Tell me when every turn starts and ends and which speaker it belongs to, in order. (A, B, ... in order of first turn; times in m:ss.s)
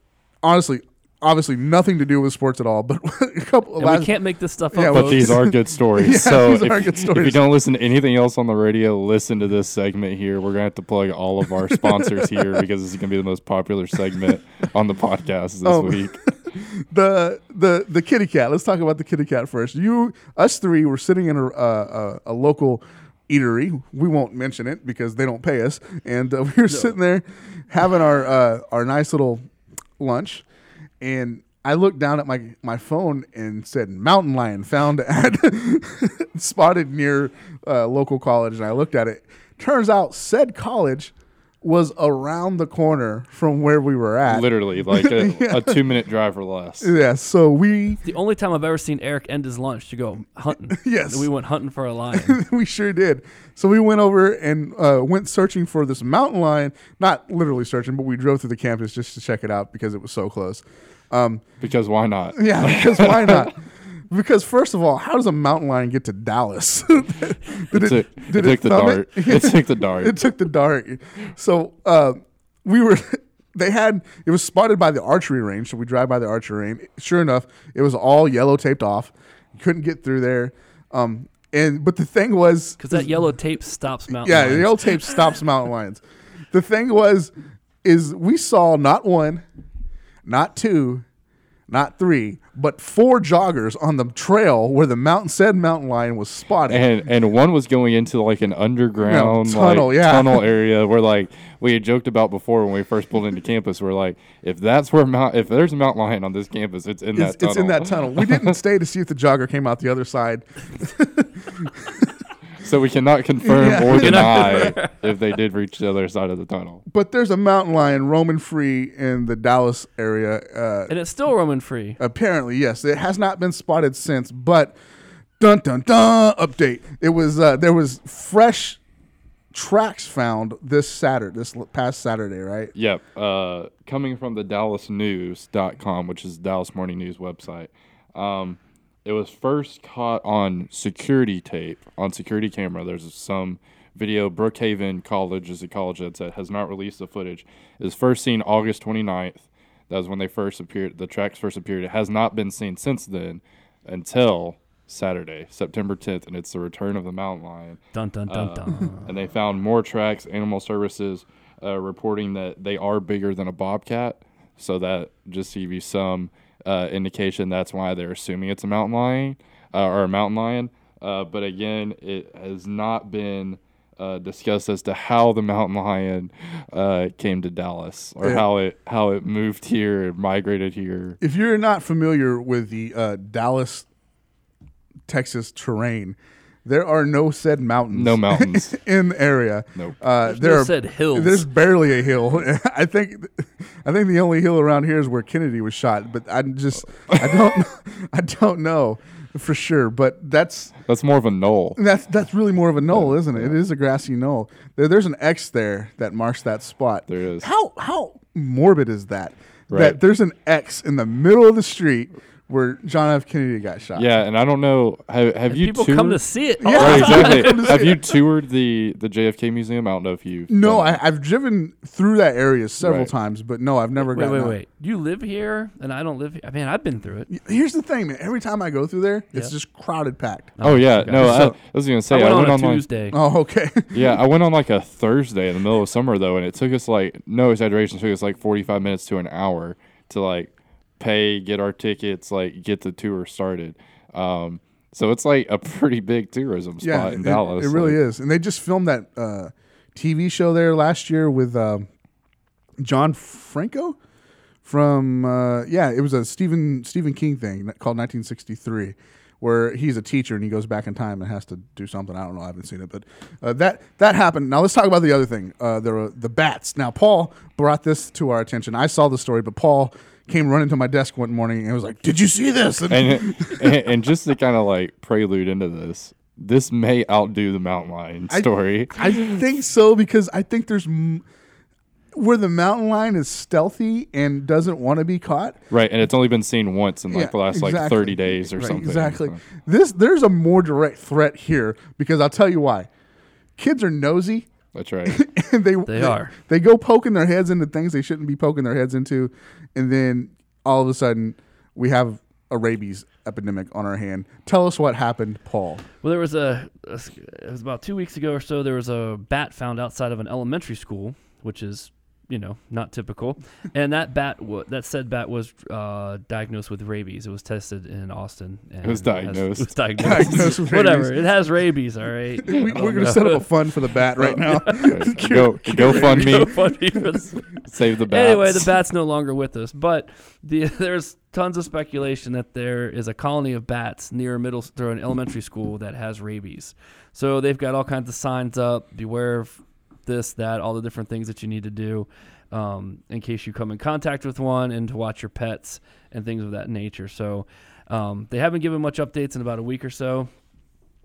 0:00.4-0:04.1 A
0:03.8-0:05.5 B
0:04.7-0:07.4 A
0:04.9-0:16.2 C
0:11.6-0:12.6 A
0:15.6-0:29.4 A
0:26.7-0:26.9 B
0:30.0-0:30.4 A
0:31.0-0:45.8 A
0:44.2-0:46.9 C
0:46.8-0:48.0 A
0:48.0-0:52.4 B
0:50.7-0:51.3 A
0:52.1-1:01.4 A
1:01.6-1:03.5 C
1:02.3-1:23.1 A
1:07.7-1:10.2 C
1:22.8-1:25.2 B
1:24.1-1:27.3 A
1:27.8-1:29.4 A
1:30.2-1:31.0 A
1:31.7-1:36.8 A
1:36.7-1:48.5 C
1:39.0-1:40.4 A
1:47.1-1:52.0 A
1:52.6-1:56.8 C
1:53.4-1:54.7 A
1:53.9-1:55.0 B
1:56.9-2:00.9 A
2:00.9-2:02.0 B
2:02.0-2:04.8 A
2:05.4-2:08.8 A
2:09.5-2:12.7 A
2:12.7-3:01.2 C
2:37.9-2:39.1 B
3:01.2-3:03.8 A
3:05.1-3:20.7 A
3:07.9-3:08.7 C
3:10.2-3:11.4 B
3:20.8-3:21.8 C
3:21.8-3:34.1 A
3:22.9-3:23.6 C
3:27.1-3:27.5 C
3:29.7-3:30.0 C
3:34.0-3:41.0 C
3:35.5-3:38.0 B
3:36.6-3:38.0 A
3:40.5-3:44.6 A
3:42.8-3:43.1 C
3:44.0-3:47.3 B
3:47.3-3:50.6 A
3:50.6-3:51.5 B
3:50.6-3:52.8 C
3:51.1-3:51.5 A
3:52.1-3:53.2 B
3:53.1-3:54.1 A
3:53.9-4:08.0 C
4:06.8-4:11.9 A
4:12.8-4:14.0 A
4:14.6-4:33.8 A
4:32.9-4:39.4 C
4:38.3-4:41.2 A
4:42.1-4:45.6 A
4:45.7-4:49.4 C
4:47.1-4:52.9 A
4:53.6-4:54.5 A
4:54.7-4:55.2 C
4:55.0-5:05.8 A
4:55.8-4:56.3 B
5:06.0-5:23.4 B
5:18.8-5:20.6 C
5:20.0-5:21.3 A
5:22.4-5:26.5 A
5:24.2-5:25.1 B
5:24.7-5:26.6 C
5:25.6-5:27.6 B
5:27.6-5:28.7 C
5:28.1-5:50.3 B